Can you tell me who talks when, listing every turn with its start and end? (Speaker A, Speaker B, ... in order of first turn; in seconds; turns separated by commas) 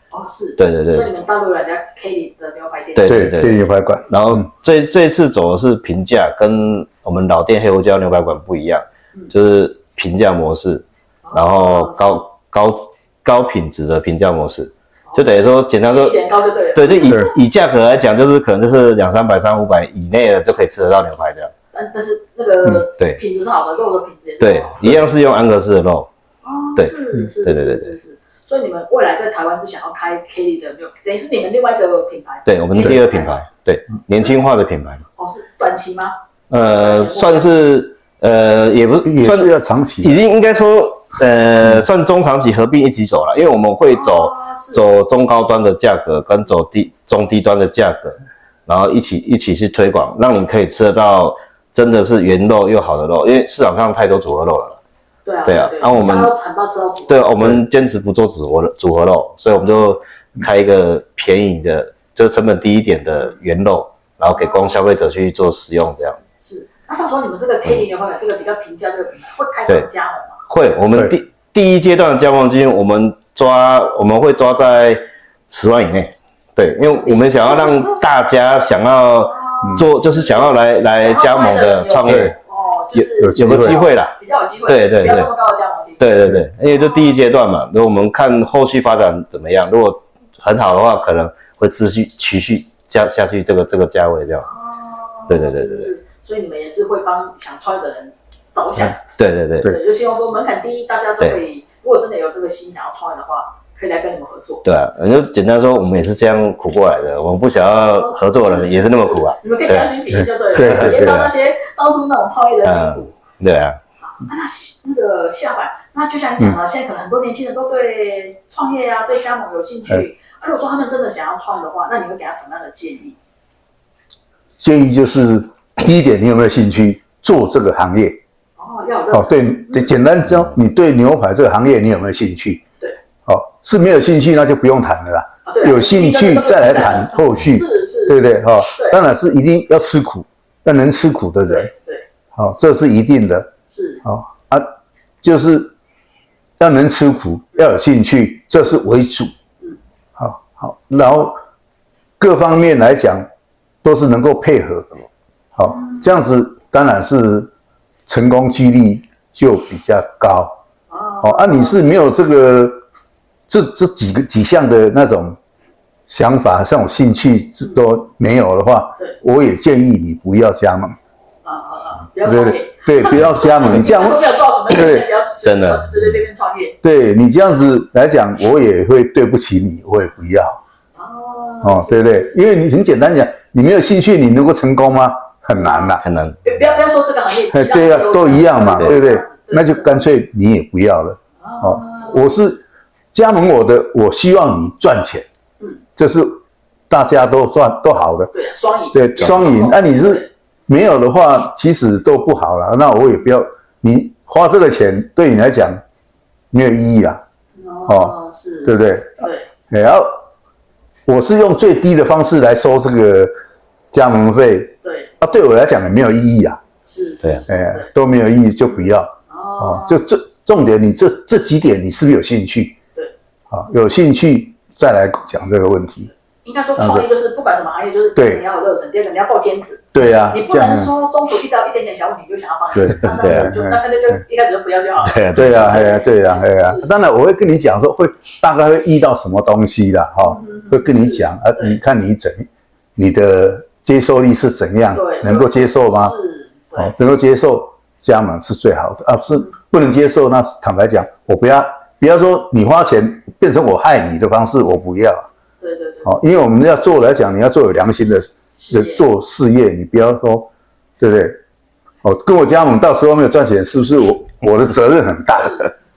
Speaker A: 0.1-3.1, Speaker B: 0.6-1.1, Speaker B: 3.0-16.2, Speaker C: 3.0-4.4, Speaker A: 11.2-12.2, Speaker A: 15.1-17.3, Speaker B: 16.7-21.5, Speaker C: 17.0-17.3, Speaker A: 21.7-25.0, Speaker B: 24.4-26.1, Speaker A: 26.4-33.4, Speaker B: 26.8-27.9, Speaker B: 32.5-35.0, Speaker A: 35.1-37.6, Speaker B: 36.5-54.8, Speaker C: 39.0-40.2, Speaker A: 43.9-45.0, Speaker A: 55.2-57.3, Speaker B: 55.4-56.3, Speaker B: 57.1-66.2, Speaker A: 64.3-64.8, Speaker A: 66.4-70.4, Speaker B: 70.5-82.3, Speaker A: 76.9-78.0, Speaker A: 79.2-86.1, Speaker C: 82.0-82.3, Speaker B: 82.9-84.1, Speaker C: 83.2-83.8, Speaker B: 84.7-85.3, Speaker B: 86.0-94.5, Speaker A: 86.6-87.2, Speaker A: 94.4-99.1, Speaker B: 95.3-95.9, Speaker B: 99.2-99.7, Speaker A: 99.6-104.6, Speaker B: 104.6-109.9, Speaker A: 107.5-113.1, Speaker C: 110.1-111.3, Speaker B: 110.5-111.3, Speaker B: 112.6-113.8, Speaker A: 114.0-123.2, Speaker C: 124.6-128.2, Speaker A: 128.6-129.9, Speaker C: 129.1-132.6, Speaker C: 133.2-141.7, Speaker A: 135.4-138.2, Speaker A: 141.4-142.0, Speaker C: 142.3-143.5, Speaker A: 143.7-144.0, Speaker C: 144.0-144.7, Speaker C: 145.2-145.7, Speaker C: 146.6-149.3, Speaker C: 150.2-151.4, Speaker C: 152.2-153.3, Speaker C: 153.8-155.0, Speaker C: 155.6-157.5, Speaker A: 155.7-156.0, Speaker C: 158.1-160.6, Speaker A: 160.9-161.8, Speaker C: 161.2-162.8, Speaker C: 163.5-165.4, Speaker C: 166.1-171.0, Speaker A: 171.4-176.8, Speaker C: 172.2-175.1, Speaker B: 175.4-175.9, Speaker C: 176.8-180.6, Speaker A: 180.9-182.4, Speaker C: 181.6-186.0, Speaker A: 185.6-190.0, Speaker B: 186.0-186.4, Speaker C: 187.5-195.2, Speaker A: 191.4-192.3, Speaker C: 196.0-198.3, Speaker A: 198.3-200.3, Speaker C: 198.9-205.8, Speaker C: 206.5-207.2, Speaker A: 207.6-209.5, Speaker C: 207.8-210.1, Speaker C: 211.1-213.3, Speaker C: 213.9-216.6, Speaker A: 214.8-215.1, Speaker A: 216.8-217.9, Speaker C: 217.5-222.8, Speaker A: 219.3-220.0, Speaker C: 223.5-226.1, Speaker A: 226.4-236.9, Speaker C: 226.8-227.1, Speaker C: 228.2-228.4, Speaker C: 229.9-230.9, Speaker C: 232.7-234.2, Speaker B: 233.0-233.5, Speaker B: 235.0-235.9, Speaker C: 235.3-246.1, Speaker A: 240.2-241.8, Speaker A: 244.9-246.9, Speaker C: 246.8-255.2, Speaker A: 255.6-256.1, Speaker C: 256.0-260.5, Speaker A: 258.6-259.0, Speaker C: 261.0-261.4, Speaker C: 262.0-265.7, Speaker A: 265.4-265.7